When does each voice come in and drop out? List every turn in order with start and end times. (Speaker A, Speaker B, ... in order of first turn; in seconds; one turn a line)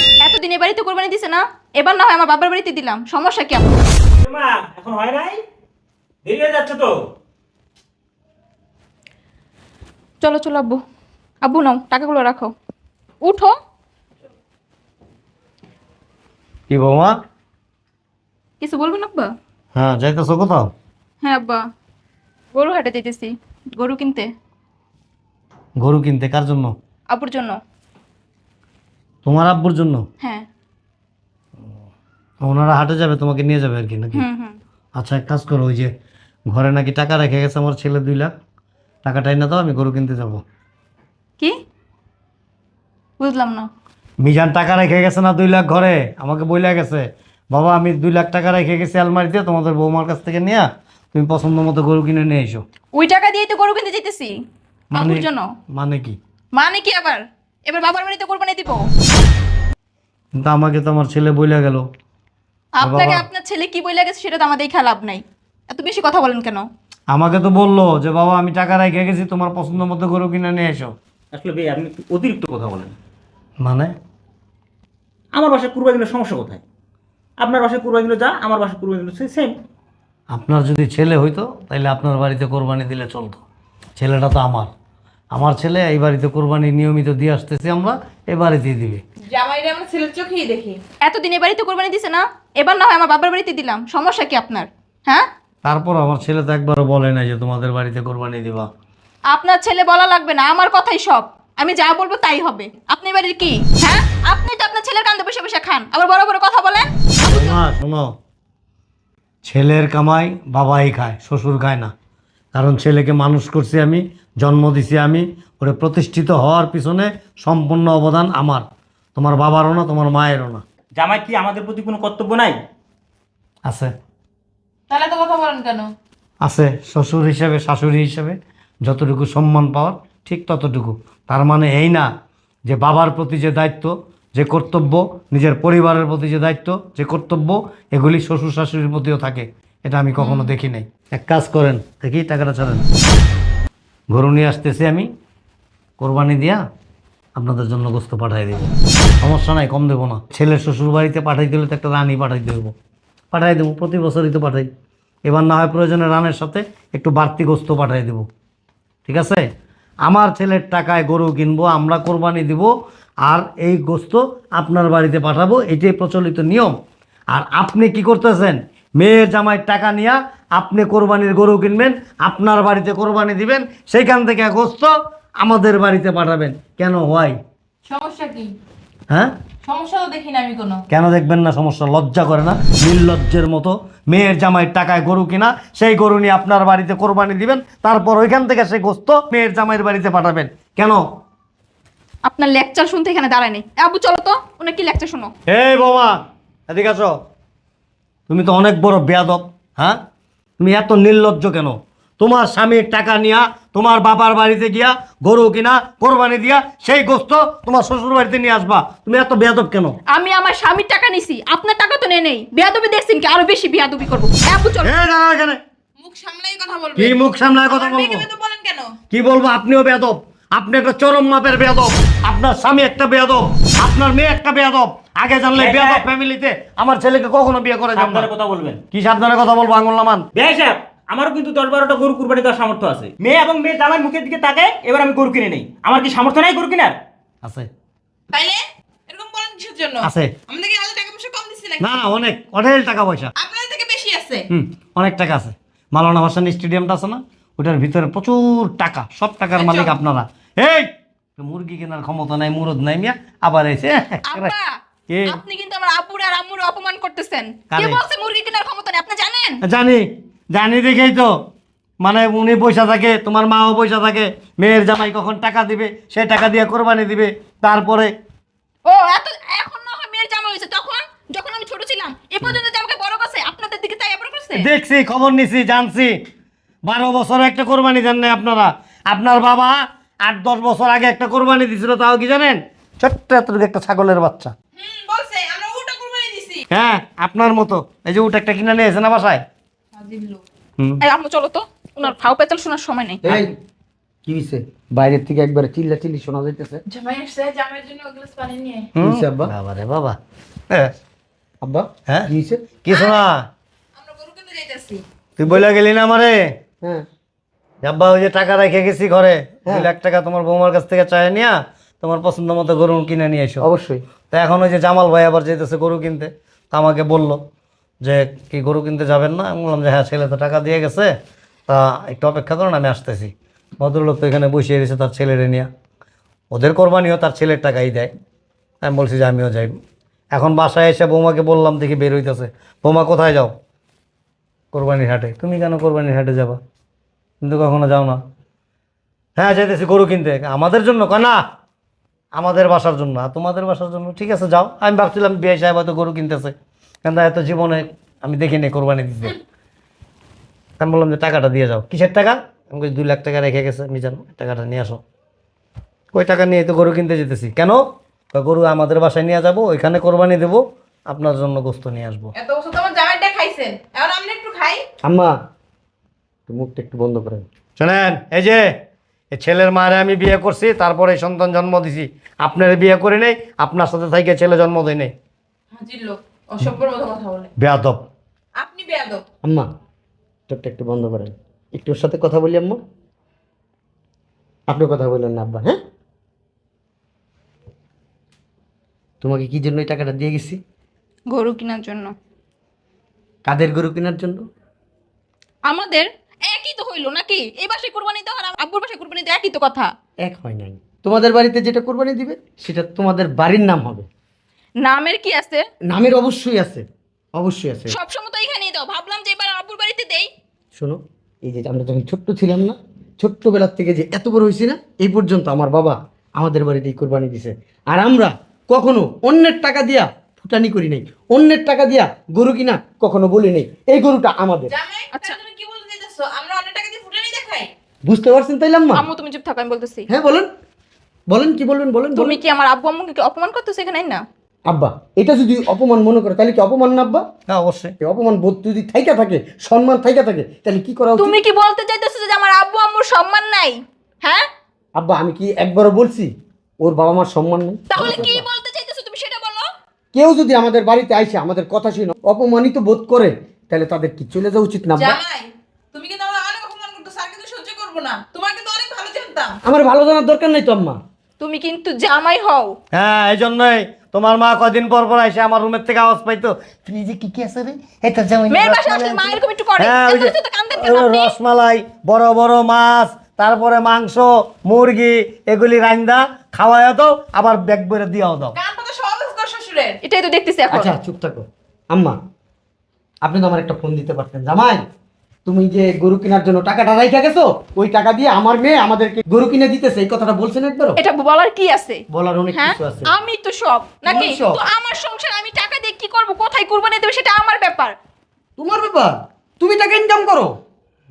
Speaker A: 0.2-3.8
Speaker B: 4.2-5.4
Speaker B: 6.2-7.0
Speaker A: 10.2-10.8
Speaker A: 11.4-12.5
Speaker A: 13.2-13.5
Speaker C: 16.7-17.1
Speaker A: 18.6-19.3
Speaker C: 19.8-20.7
Speaker A: 21.2-21.6
Speaker A: 22.5-24.3
Speaker C: 25.8-26.8
Speaker A: 27.1-27.6
Speaker C: 29.2-30.1
Speaker C: 32.4-34.2
Speaker A: 34.1-34.6
Speaker C: 35.0-35.9
Speaker C: 36.5-38.3
Speaker C: 39.0-40.4
Speaker A: 43.2-43.7
Speaker C: 44.2-52.6
Speaker A: 52.9-54.3
Speaker C: 54.9-56.2
Speaker A: 54.9-55.5
Speaker A: 56.5-58.9
Speaker C: 60.4-61.9
Speaker A: 62.8-66.7
Speaker C: 62.8-63.2
Speaker C: 67.1-70.9
Speaker B: 71.3-73.0
Speaker C: 73.6-73.9
Speaker B: 75.3-76.6
Speaker B: 77.4-79.6
Speaker C: 80.3-83.4
Speaker C: 84.0-84.7
Speaker C: 85.3-89.0
Speaker D: 89.3-90.8
Speaker A: 91.0-95.2
Speaker C: 95.7-98.7
Speaker A: 99.3-107.6
Speaker C: 107.3-108.1
Speaker C: 109.4-111.9
Speaker C: 112.5-118.6
Speaker C: 119.2-120.6
Speaker B: 121.0-122.6
Speaker C: 123.7-123.9
Speaker D: 124.9-125.9
Speaker C: 126.4-132.1
Speaker C: 132.7-142.9
Speaker A: 140.2-140.5
Speaker C: 144.1-145.1
Speaker C: 146.0-146.6
Speaker C: 147.4-148.7
Speaker C: 149.2-152.7
Speaker C: 153.3-154.7
Speaker C: 155.2-158.2
Speaker C: 159.1-159.5
Speaker C: 160.1-162.7
Speaker C: 163.2-166.7
Speaker C: 167.3-177.4
Speaker D: 177.9-178.5
Speaker D: 179.7-180.8
Speaker C: 180.9-191.0
Speaker A: 192.3-195.3
Speaker C: 195.5-196.2
Speaker C: 196.7-197.2
Speaker C: 198.3-200.0
Speaker C: 200.6-210.0
Speaker A: 210.1-214.9
Speaker C: 214.8-215.6
Speaker D: 216.0-217.2
Speaker C: 217.0-218.3
Speaker D: 217.7-218.9
Speaker C: 219.1-228.3
Speaker B: 225.6-226.1
Speaker B: 227.9-228.8
Speaker C: 228.9-230.2
Speaker B: 230.3-237.0
Speaker C: 237.4-237.7
Speaker D: 238.3-242.0
Speaker C: 240.0-240.3
Speaker C: 241.8-243.3
Speaker D: 243.4-244.4
Speaker C: 244.5-254.5
Speaker D: 249.6-249.9
Speaker A: 254.3-254.7
Speaker C: 255.1-255.4
Speaker A: 255.3-259.6
Speaker C: 257.7-258.0
Speaker C: 259.6-261.3
Speaker C: 262.0-268.1
Speaker A: 268.9-274.7
Speaker C: 274.6-276.1
Speaker C: 276.9-284.5
Speaker D: 284.8-286.6
Speaker C: 286.7-289.4
Speaker D: 289.9-290.4
Speaker A: 291.0-293.2
Speaker E: 293.2-293.5
Speaker E: 294.3-296.8
Speaker D: 296.9-298.9
Speaker C: 299.0-300.2
Speaker E: 299.0-299.5
Speaker E: 301.6-302.7
Speaker C: 302.8-303.5
Speaker D: 302.9-303.2
Speaker D: 304.0-305.0
Speaker C: 305.4-306.4
Speaker C: 307.8-313.7
Speaker E: 313.6-314.0
Speaker C: 314.3-317.4
Speaker C: 318.0-321.1
Speaker C: 321.7-325.7
Speaker C: 326.5-328.1
Speaker C: 328.8-329.8
Speaker C: 330.3-333.5
Speaker C: 334.7-336.6
Speaker C: 337.4-338.2
Speaker C: 339.4-341.4
Speaker C: 342.3-346.5
Speaker C: 347.1-349.4
Speaker C: 350.8-355.0
Speaker C: 356.1-357.8
Speaker C: 358.3-362.3
Speaker D: 362.4-364.8
Speaker E: 365.1-365.4
Speaker E: 366.5-367.5
Speaker C: 367.8-368.7
Speaker C: 369.3-375.1
Speaker D: 375.8-377.5
Speaker C: 377.6-378.0
Speaker D: 378.6-379.2
Speaker E: 380.5-382.8
Speaker E: 384.7-385.8
Speaker E: 389.2-390.6
Speaker A: 391.3-392.1
Speaker E: 393.5-394.4
Speaker A: 395.7-399.9
Speaker E: 400.2-404.1
Speaker A: 404.8-405.6
Speaker E: 405.9-406.9
Speaker E: 407.4-408.0
Speaker A: 407.9-410.3
Speaker E: 410.8-424.7
Speaker D: 424.7-427.7
Speaker E: 428.1-429.1
Speaker A: 428.9-430.1
Speaker E: 430.1-430.5
Speaker E: 431.3-432.4
Speaker A: 432.2-434.2
Speaker E: 434.7-437.2
Speaker C: 437.5-437.9
Speaker E: 438.0-441.4
Speaker A: 441.2-444.5
Speaker E: 445.0-448.4
Speaker A: 447.9-449.7
Speaker E: 450.1-455.2
Speaker D: 455.0-459.6
Speaker E: 459.6-461.0
Speaker A: 461.4-462.8
Speaker C: 462.9-478.6
Speaker A: 468.5-471.3
Speaker D: 478.6-480.0
Speaker A: 480.0-480.9
Speaker E: 480.7-482.2
Speaker E: 483.2-484.8
Speaker E: 485.5-491.0
Speaker A: 491.0-497.9
Speaker E: 492.1-493.1
Speaker E: 494.0-494.6
Speaker E: 498.6-500.6